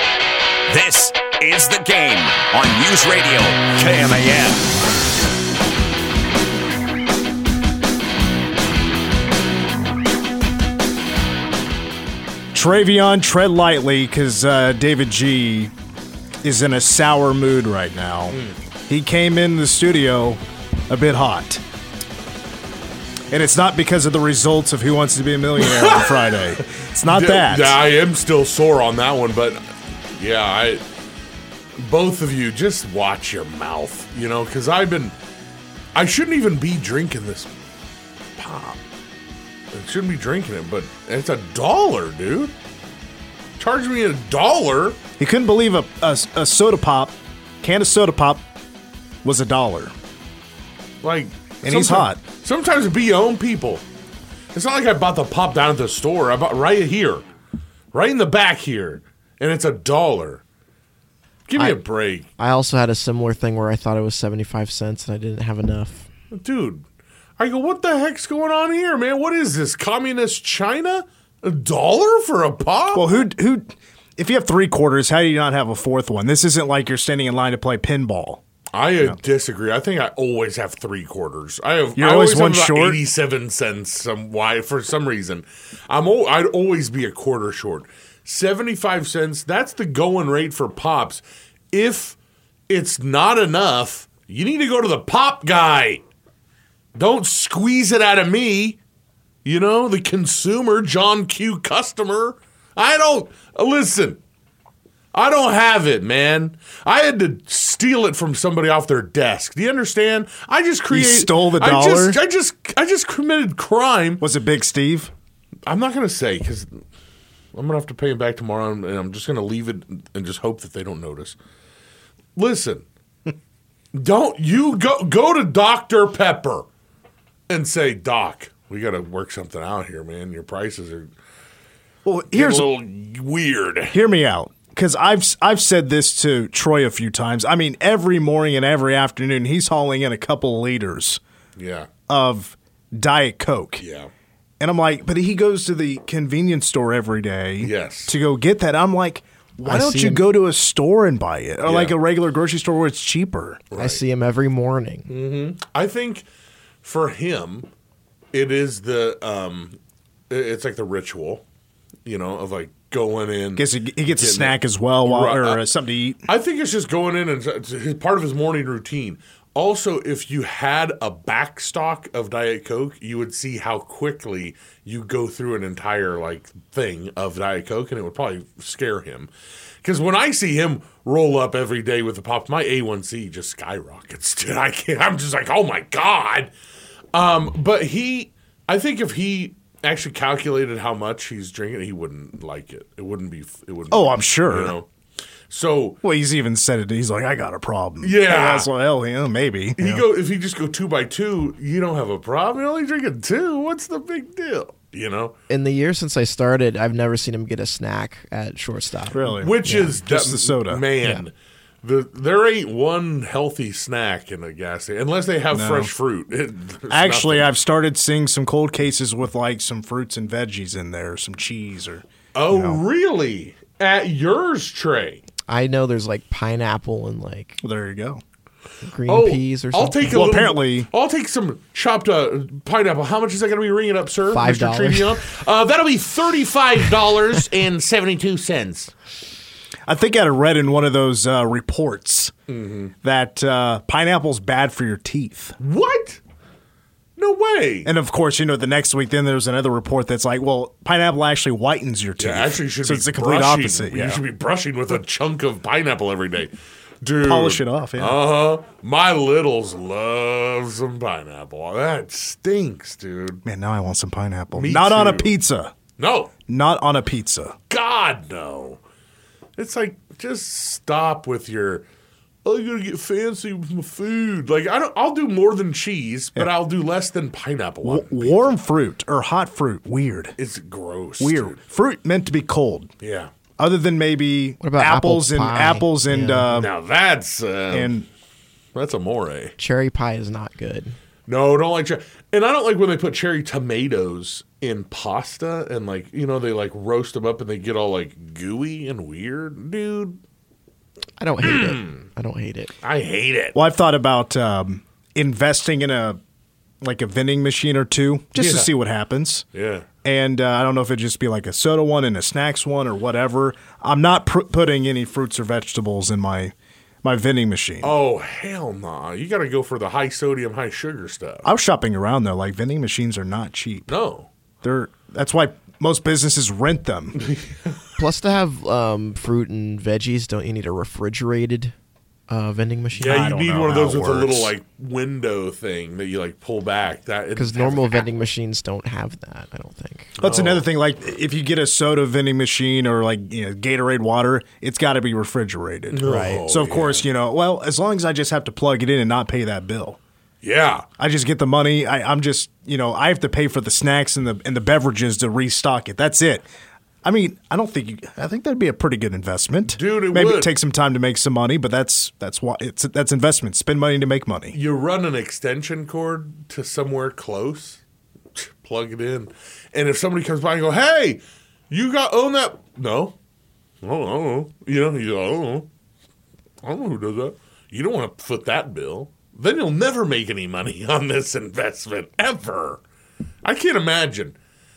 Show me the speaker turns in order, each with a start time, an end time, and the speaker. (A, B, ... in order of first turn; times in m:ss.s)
0:00.7-0:04.8 A
0:12.5-0:15.7 B
0:16.4-0:21.6 B
0:18.3-0:18.6 C
0:23.3-0:27.8 B
0:25.6-0:29.6 C
0:30.2-0:30.8 C
0:31.8-0:35.2 C
0:36.0-0:37.5 C
0:38.4-0:38.8 C
0:39.7-0:42.5 C
0:43.6-0:45.0 C
0:45.2-0:48.4 B
0:49.2-0:49.9 B
0:51.0-0:53.8 C
0:51.6-0:52.2 B
0:54.5-0:57.2 C
0:57.9-1:00.4 C
1:01.5-1:02.3 C
1:02.4-1:06.1 D
1:06.3-1:06.8 C
1:07.4-1:13.1 C
1:12.9-1:18.4 B
1:18.7-1:32.2 C
1:22.0-1:23.0 B
1:32.7-1:36.0 C
1:37.0-1:38.8 C
1:39.4-1:44.2 C
1:45.1-1:54.2 C
1:50.9-1:52.2 B
1:54.2-1:55.1 B
1:55.7-1:56.8 C
1:57.5-2:01.4 C
2:02.4-2:02.8 C
2:03.9-2:06.7 C
2:07.5-2:11.1 C
2:12.0-2:12.7 B
2:12.3-2:14.0 C
2:13.9-2:21.2 B
2:21.6-2:21.9 C
2:22.1-2:23.8 B
2:23.8-2:24.1 C
2:24.6-2:33.6 B
2:27.6-2:28.2 C
2:29.6-2:30.3 D
2:31.6-2:32.0 C
2:33.7-2:34.0 C
2:33.8-2:35.1 D
2:35.1-2:36.3 C
2:36.8-2:37.7 C
2:38.3-2:39.8 C
2:40.3-2:41.4 C
2:42.1-2:45.7 C
2:43.6-2:46.3 B
2:46.3-2:59.3 C
2:59.8-3:06.5 C
3:07.1-3:14.9 C
3:13.9-3:14.8 B
3:15.5-3:16.0 C
3:16.0-3:20.0 B
3:18.0-3:18.7 C
3:19.8-3:25.4 C
3:25.5-3:30.0 D
3:29.1-3:30.8 B
3:29.4-3:37.5 C
3:35.5-3:35.9 B
3:36.9-3:42.8 B
3:42.3-3:45.2 C
3:45.5-3:47.6 D
3:47.6-3:48.2 B
3:48.8-3:50.2 D
3:49.1-3:58.9 C
3:50.1-3:50.9 B
3:54.3-3:55.2 D
3:59.9-4:02.3 B
4:02.5-4:02.9 C
4:03.0-4:05.6 B
4:05.6-4:06.2 C
4:07.2-4:07.9 C
4:07.8-4:14.2 B
4:12.2-4:23.4 C
4:17.2-4:18.2 B
4:23.4-4:25.7 B
4:24.6-4:25.3 C
4:26.0-4:26.3 C
4:26.5-4:27.6 B
4:27.7-4:28.8 C
4:29.6-4:31.8 C
4:32.4-4:38.5 C
4:37.8-4:40.4 B
4:40.4-4:41.6 C
4:41.2-4:42.9 B
4:43.0-4:43.3 C
4:43.6-4:46.7 B
4:44.6-4:46.6 D
4:46.5-4:47.9 C
4:47.7-4:48.1 B
4:48.8-4:49.6 C
4:49.6-4:51.0 D
4:51.3-5:00.2 C
5:01.2-5:02.7 D
5:01.4-5:02.0 C
5:02.8-5:03.6 C
5:03.6-5:06.2 B
5:06.8-5:09.4 B
5:08.4-5:08.7 C
5:09.5-5:09.9 C
5:10.0-5:18.0 B
5:17.8-5:21.5 C
5:21.4-5:23.9 B
5:23.9-5:24.3 C
5:24.6-5:27.2 B
5:27.2-5:27.8 C
5:28.0-5:31.7 D
5:32.3-5:33.4 D
5:33.0-5:38.0 C
5:33.0-5:34.5 B
5:37.4-5:40.2 D
5:40.2-5:40.6 C
5:40.2-5:50.0 B
5:45.9-5:47.0 C
5:46.0-5:46.5 D
5:50.4-5:50.9 C
5:51.0-5:56.5 B
5:57.0-6:04.6 B
5:59.7-6:00.5 C
6:04.5-6:07.8 C
6:08.4-6:13.2 C
6:13.8-6:15.7 C
6:16.6-6:22.8 C
6:23.4-6:24.4 C